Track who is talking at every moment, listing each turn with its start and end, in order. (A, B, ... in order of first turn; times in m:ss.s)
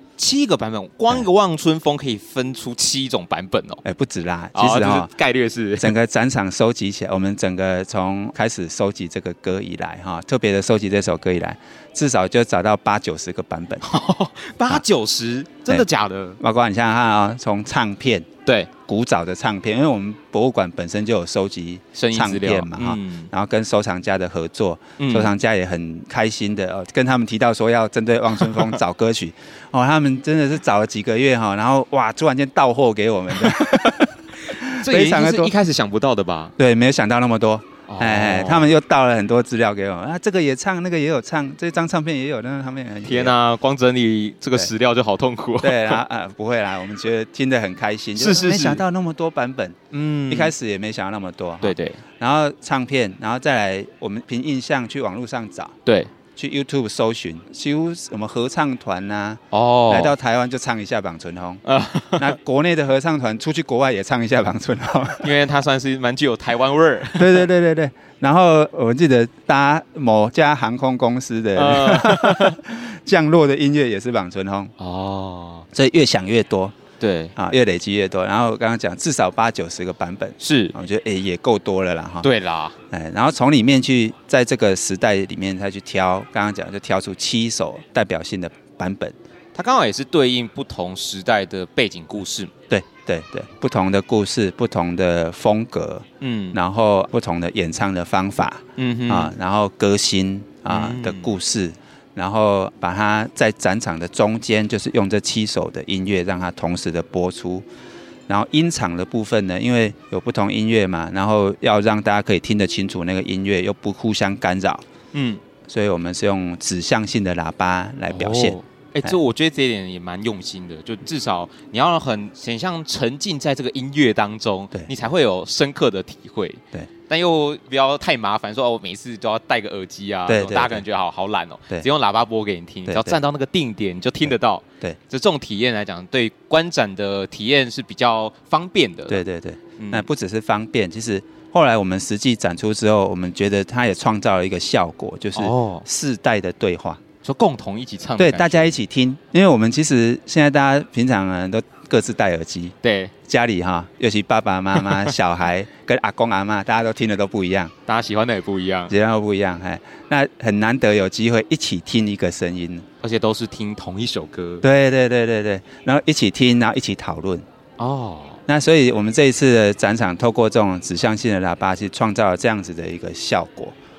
0:00.2-0:03.8 A
0:03.8-0:05.1 B
0:04.5-0:06.0 A
0:05.8-0:13.9 B
0:13.8-0:16.4 A
0:16.4-0:18.3 B
0:18.9-0:35.5 B
0:21.9-0:23.3 A
0:25.0-0:25.3 A
0:28.4-0:28.7 A
0:34.6-0:36.5 A
0:36.6-0:43.4 B
0:37.9-0:38.7 A
0:43.0-0:46.0 A
0:45.6-0:49.8 B
0:48.2-0:48.8 A
0:49.9-0:50.5 A
0:50.3-0:55.8 B
0:51.6-0:52.0 A
0:55.8-0:56.1 A
0:56.4-1:01.6 B
0:59.5-1:00.1 A
1:01.6-1:02.4 A
1:02.2-1:05.3 B
1:05.2-1:07.4 A
1:07.2-1:14.7 B
1:11.5-1:12.6 A
1:14.8-1:15.7 A
1:15.7-1:16.8 B
1:17.0-1:17.3 A
1:17.4-1:22.3 B
1:20.4-1:20.7 A
1:22.2-1:22.8 A
1:22.9-1:29.2 B
1:29.5-1:32.5 A
1:32.7-1:47.6 B
1:36.2-1:36.6 A
1:38.8-1:39.3 A
1:40.7-1:41.3 A
1:48.3-1:54.8 B
1:55.1-1:55.4 A
1:55.7-1:59.2 B
1:58.1-2:19.2 A
2:10.3-2:10.8 B
2:12.9-2:13.2 B
2:14.2-2:15.0 B
2:19.1-2:27.0 B
2:19.8-2:20.1 A
2:25.3-2:25.8 A
2:27.2-2:28.8 A
2:28.2-2:37.7 B
2:32.8-2:33.1 A
2:37.9-2:38.9 A
2:38.9-2:42.8 B
2:43.0-2:44.7 A
2:44.6-2:47.4 B
2:47.8-2:48.4 A
2:48.5-2:53.8 B